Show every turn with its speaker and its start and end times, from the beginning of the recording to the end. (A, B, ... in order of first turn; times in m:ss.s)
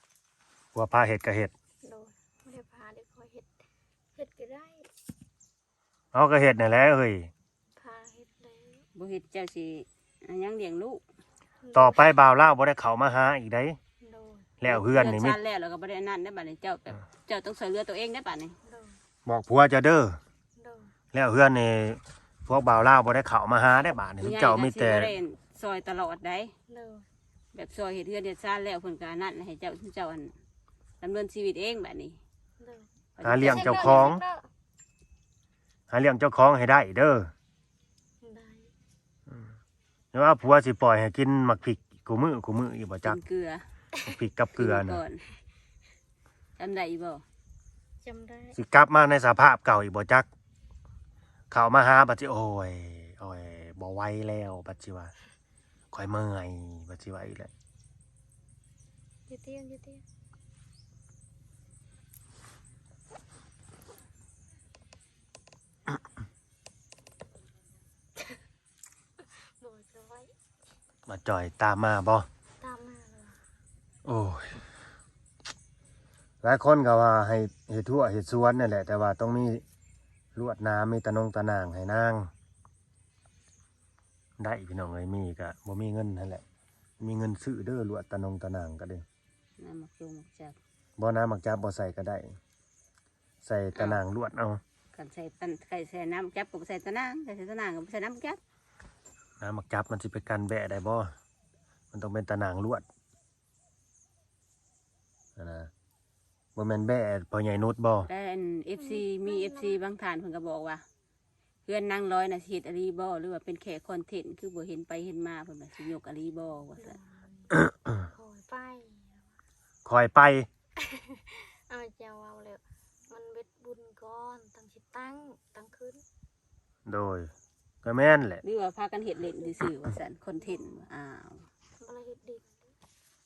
0:00.7-0:01.5 A
0:01.8-0:03.5 B
0:04.1-0:04.9 B
0:06.1-0:07.3 A
0:07.8-0:08.8 B
0:08.9-0:11.0 C
0:11.6-0:12.1 B
0:11.7-0:13.8 A
0:14.0-0:14.5 B
0:14.6-0:15.4 A
0:14.7-0:18.5 C
0:18.6-0:19.0 B
0:19.2-0:20.2 A
0:20.6-0:20.9 B
0:21.1-0:25.1 A
0:24.2-0:26.5 C
0:26.7-0:27.0 B
0:27.5-0:30.3 C
0:31.0-0:32.2 C
0:32.6-0:32.9 B
0:33.2-0:34.2 C
0:33.2-0:34.2 A
0:33.4-0:34.5 B
0:35.9-0:37.3 A
0:38.2-0:38.7 B
0:40.1-0:43.2 A
0:43.0-0:43.6 C
0:44.0-0:45.0 A
0:44.6-0:45.2 C
0:46.6-0:47.2 C
0:48.0-0:48.6 B
0:48.6-0:50.3 A
0:51.5-0:55.1 A
0:55.9-0:57.5 A
0:59.3-1:00.0 B
1:09.2-1:10.3 B
1:11.1-1:12.3 A
1:12.6-1:13.4 B
1:14.0-1:14.6 A
1:16.4-1:19.6 A
1:20.3-1:22.3 A
1:24.4-1:26.4 A
1:27.0-1:29.0 A
1:29.6-1:30.6 C
1:31.0-1:32.3 A
1:33.4-1:34.6 A
1:33.7-1:34.0 C
1:34.9-1:38.4 C
1:39.4-1:41.1 A
1:41.9-1:42.8 A
1:45.4-1:45.7 A
1:46.6-1:48.1 A
1:48.1-1:50.8 C
1:48.8-1:49.8 B
1:51.6-1:57.0 C
1:56.8-1:57.5 B
1:57.5-1:58.0 A
1:58.0-1:59.2 B
1:59.8-2:00.5 A
2:00.8-2:06.0 B
2:06.8-2:07.3 A
2:07.8-2:08.4 A
2:08.4-2:11.5 C
2:10.4-2:10.8 B
2:11.8-2:12.7 B